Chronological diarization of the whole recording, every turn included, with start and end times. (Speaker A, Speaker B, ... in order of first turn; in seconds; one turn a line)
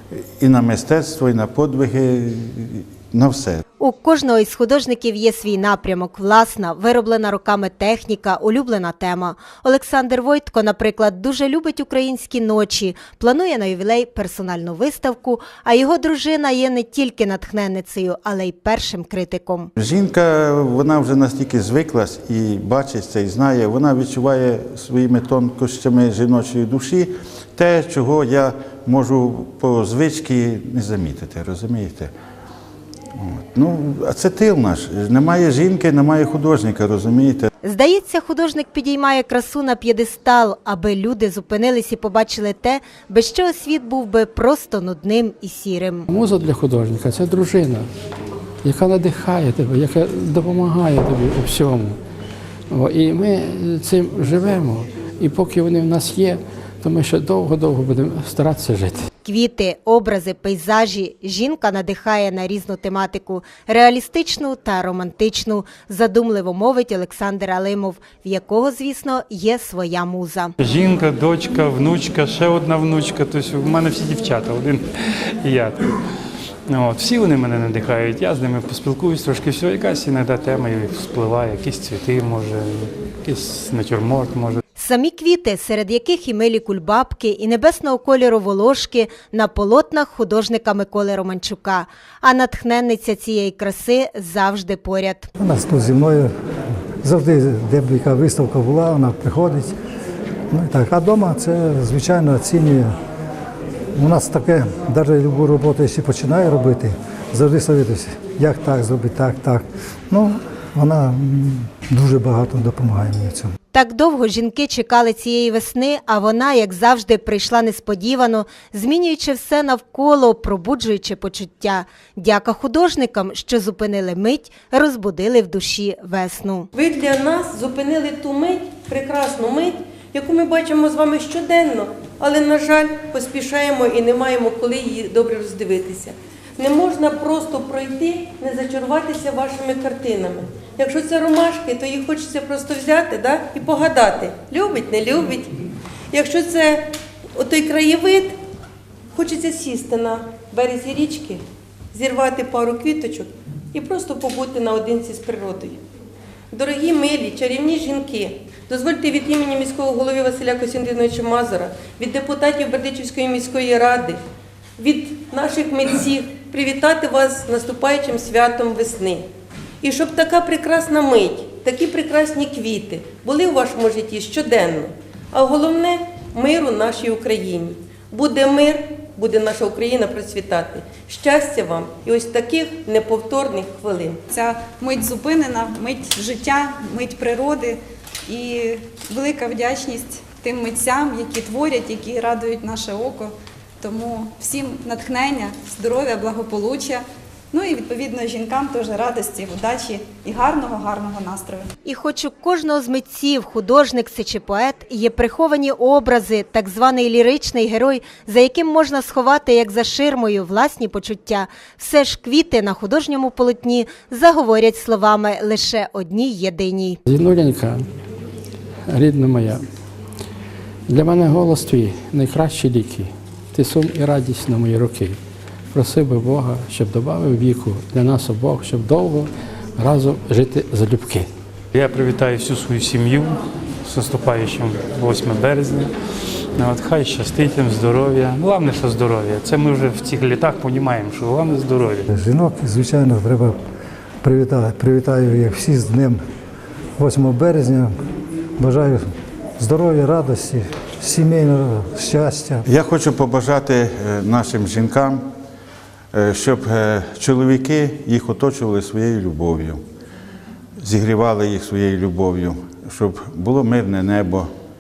Speaker A: 0.4-3.6
Speaker B: 3.8-19.7
Speaker A: 19.8-32.1
Speaker A: 33.2-37.5
Speaker B: 37.6-46.1
Speaker C: 46.1-47.9
Speaker C: 48.6-52.0
Speaker C: 52.7-59.1
Speaker B: 59.2-70.5
Speaker D: 70.6-74.9
Speaker D: 75.4-75.8
Speaker D: 76.7-84.6
Speaker B: 84.8-95.3
Speaker E: 95.4-96.3
Speaker E: 97.0-99.7
Speaker E: 100.5-102.9
Speaker E: 104.0-113.5
Speaker B: 113.7-126.7
Speaker F: 126.7-145.6
Speaker F: 146.1-148.3
Speaker F: 149.2-151.4
Speaker F: 151.9-155.8
Speaker F: 156.5-164.2
Speaker F: 164.8-169.3
Speaker F: 169.8-184.2
Speaker G: 184.3-201.7
Speaker B: 201.9-217.0
Speaker C: 217.1-217.9
Speaker C: 218.9-219.6
Speaker C: 220.9-225.2
Speaker C: 225.7-231.3
Speaker D: 231.7-235.9
Speaker D: 236.6-242.1
Speaker E: 242.1-243.6
Speaker E: 244.2-246.2
Speaker E: 247.0-248.0
Speaker E: 248.6-252.7
Speaker A: 252.7-255.3
Speaker A: 256.1-259.8
Speaker A: 260.8-264.5